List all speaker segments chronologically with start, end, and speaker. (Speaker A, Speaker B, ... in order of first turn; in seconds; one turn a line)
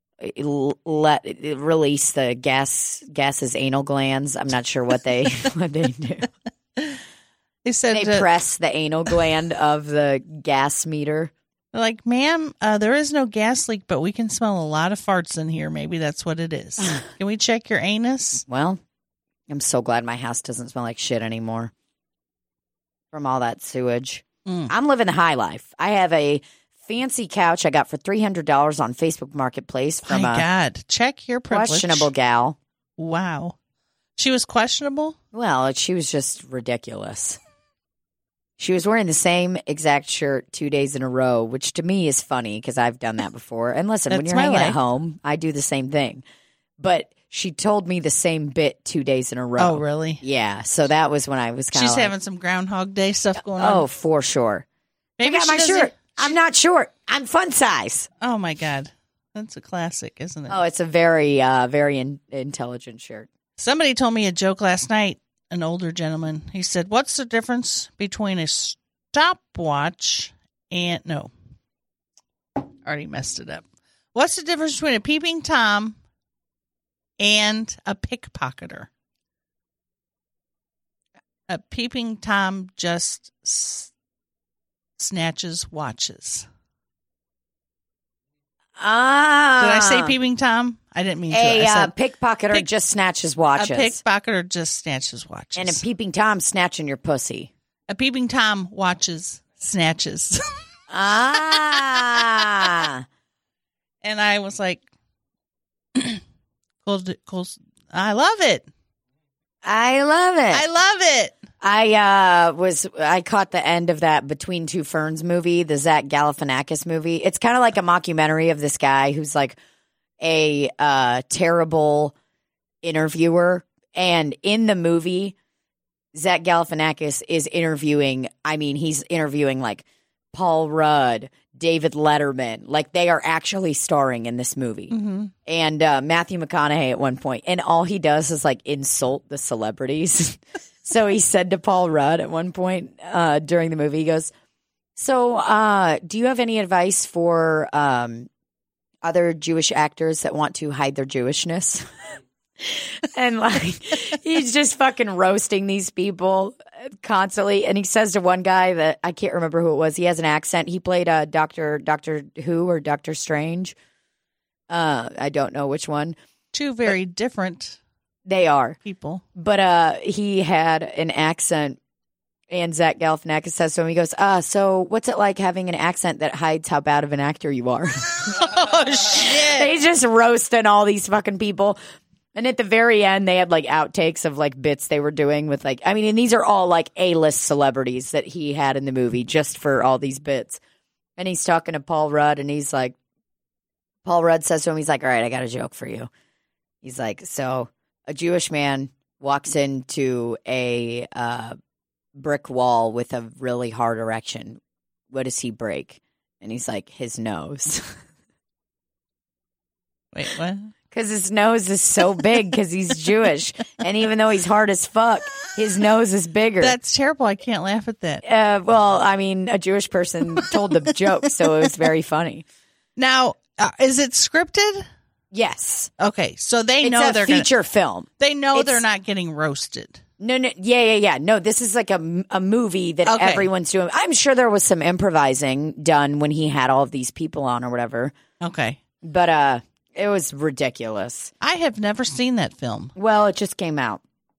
Speaker A: 0.2-6.3
Speaker B: 7.7-8.3
Speaker A: 7.9-11.3
Speaker B: 11.7-18.4
Speaker A: 18.5-18.8
Speaker A: 19.5-21.7
Speaker A: 23.1-30.5
Speaker B: 24.5-24.7
Speaker B: 30.1-32.1
Speaker A: 31.5-32.6
Speaker B: 33.0-33.5
Speaker B: 34.2-35.2
Speaker A: 35.3-37.4
Speaker A: 38.6-46.2
Speaker B: 44.1-44.8
Speaker A: 46.8-52.1
Speaker B: 49.6-50.2
Speaker B: 51.7-53.9
Speaker A: 53.5-54.6
Speaker B: 55.2-56.3
Speaker A: 55.2-58.1
Speaker B: 58.2-60.6
Speaker A: 60.5-63.3
Speaker B: 63.6-71.3
Speaker B: 72.8-76.0
Speaker B: 77.2-78.9
Speaker B: 81.5-83.9
Speaker B: 85.0-86.5
Speaker A: 88.8-90.2
Speaker B: 89.6-91.9
Speaker A: 91.3-94.0
Speaker B: 93.6-95.8
Speaker A: 95.6-97.5
Speaker B: 97.9-100.4
Speaker A: 100.9-103.0
Speaker B: 101.5-102.3
Speaker B: 104.0-104.8
Speaker B: 106.0-106.2
Speaker B: 106.8-108.7
Speaker A: 109.6-110.6
Speaker B: 110.5-111.4
Speaker A: 111.6-119.6
Speaker A: 120.2-122.1
Speaker A: 122.8-125.3
Speaker A: 126.1-134.9
Speaker B: 134.9-135.3
Speaker A: 135.5-144.3
Speaker A: 145.0-148.3
Speaker A: 149.0-151.8
Speaker A: 152.6-163.8
Speaker A: 164.7-166.2
Speaker B: 166.5-167.8
Speaker A: 168.3-168.8
Speaker B: 168.8-169.2
Speaker A: 169.4-171.8
Speaker A: 172.5-181.8
Speaker B: 179.0-179.7
Speaker A: 182.3-190.6
Speaker A: 191.2-192.9
Speaker A: 194.1-196.1
Speaker A: 196.8-201.6
Speaker A: 202.2-204.6
Speaker A: 205.1-208.0
Speaker B: 210.1-210.7
Speaker A: 210.9-216.8
Speaker B: 216.6-218.2
Speaker A: 218.2-222.4
Speaker B: 221.4-221.7
Speaker B: 223.0-224.8
Speaker A: 225.3-225.9
Speaker B: 226.0-227.5
Speaker A: 226.8-228.8
Speaker B: 228.2-230.0
Speaker A: 230.2-238.1
Speaker B: 233.1-233.5
Speaker B: 238.4-238.8
Speaker A: 239.0-241.3
Speaker B: 241.4-242.9
Speaker A: 243.0-244.0